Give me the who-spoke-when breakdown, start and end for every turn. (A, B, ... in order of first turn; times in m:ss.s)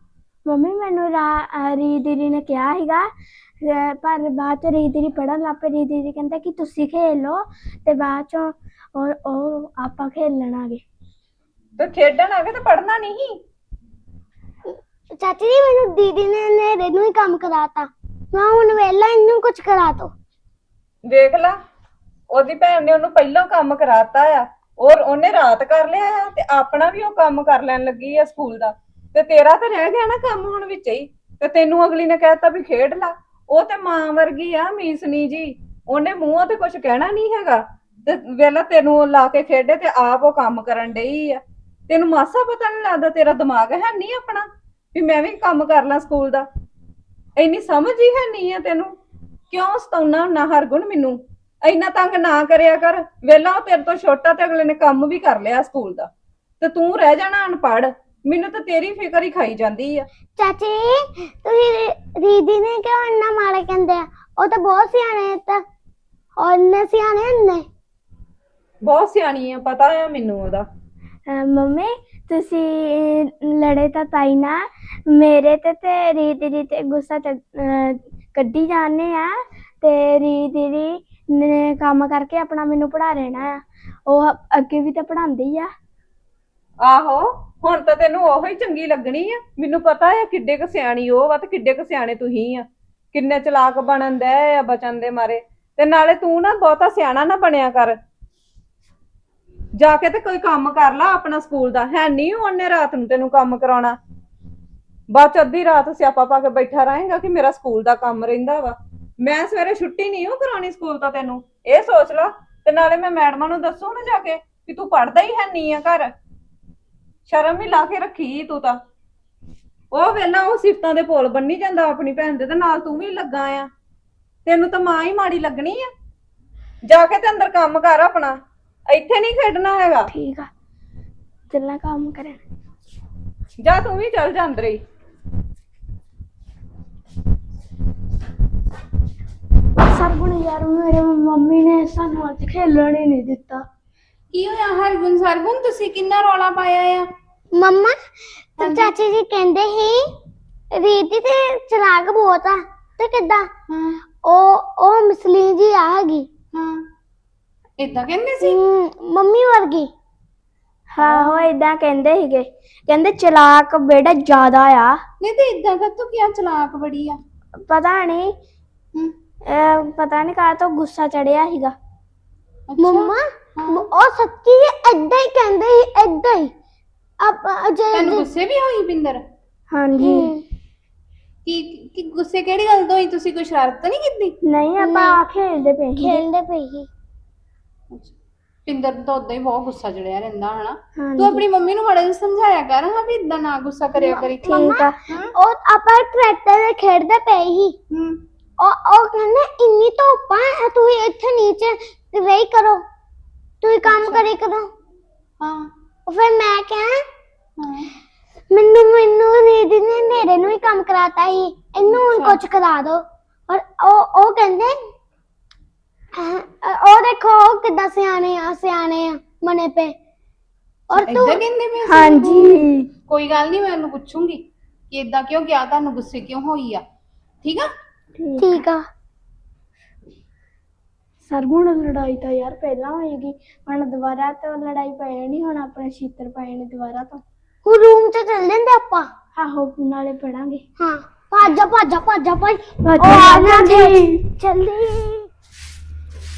0:00.5-0:10.8 A
0:11.8-0:13.4 B
0:14.7-0:20.1 C
0:21.1-0:21.6 B
0:22.3-0:46.5 B
0:47.4-0:48.9 B
0:49.5-0:56.1 B
0:56.6-1:00.1 B
1:00.4-1:05.6 C
1:06.4-1:07.6 C
1:08.8-1:10.7 B
1:11.3-1:25.7 A
1:26.8-1:38.0 B
1:39.8-1:44.0 B
1:45.1-1:56.1 B
1:57.3-1:58.8 B
1:59.9-2:03.7 B
2:04.5-2:05.9 B
2:06.9-2:08.4 B
2:08.9-2:10.1 B
2:10.1-2:10.5 A
2:11.5-2:12.4 A
2:13.6-2:14.8 B
2:19.8-2:23.6 A
2:24.3-2:27.1 D
2:27.6-2:28.0 C
2:28.6-2:30.0 C
2:28.6-2:28.9 D
2:30.7-2:33.5 C
2:33.7-2:34.0 D
2:34.2-2:36.3 C
2:36.5-2:36.8 D
2:37.8-2:38.6 D
2:38.4-2:39.9 C
2:40.9-2:45.0 A
2:41.0-2:41.5 D
2:45.2-2:47.2 D
2:47.6-2:48.3 A
2:49.5-2:51.7 A
2:52.7-2:53.9 D
2:52.8-2:56.5 C
2:57.2-2:58.3 C
2:57.9-2:59.2 D
2:59.7-3:00.3 A
3:00.0-3:00.4 C
3:01.4-3:04.4 D
3:04.4-3:06.2 A
3:04.8-3:05.2 C
3:06.0-3:06.9 C
3:08.7-3:15.3 D
3:11.0-3:11.5 A
3:14.1-3:17.8 C
3:14.4-3:15.0 A
3:17.9-3:18.2 D
3:18.6-3:22.8 C
3:23.6-3:24.7 C
3:23.8-3:24.3 D
3:25.4-3:25.7 D
3:26.1-3:27.0 C
3:27.6-3:27.9 D
3:28.5-3:34.8 C
3:31.9-3:32.4 D
3:36.1-3:40.0 C
3:40.9-3:41.4 C
3:40.9-3:46.8 D
3:41.8-3:42.9 A
3:47.4-3:47.7 D
3:48.2-3:48.6 A
3:48.4-3:48.8 C
3:51.2-3:57.2 A
3:57.6-3:59.1 C
3:59.4-4:00.6 A
4:00.8-4:05.3 C
4:02.8-4:04.3 A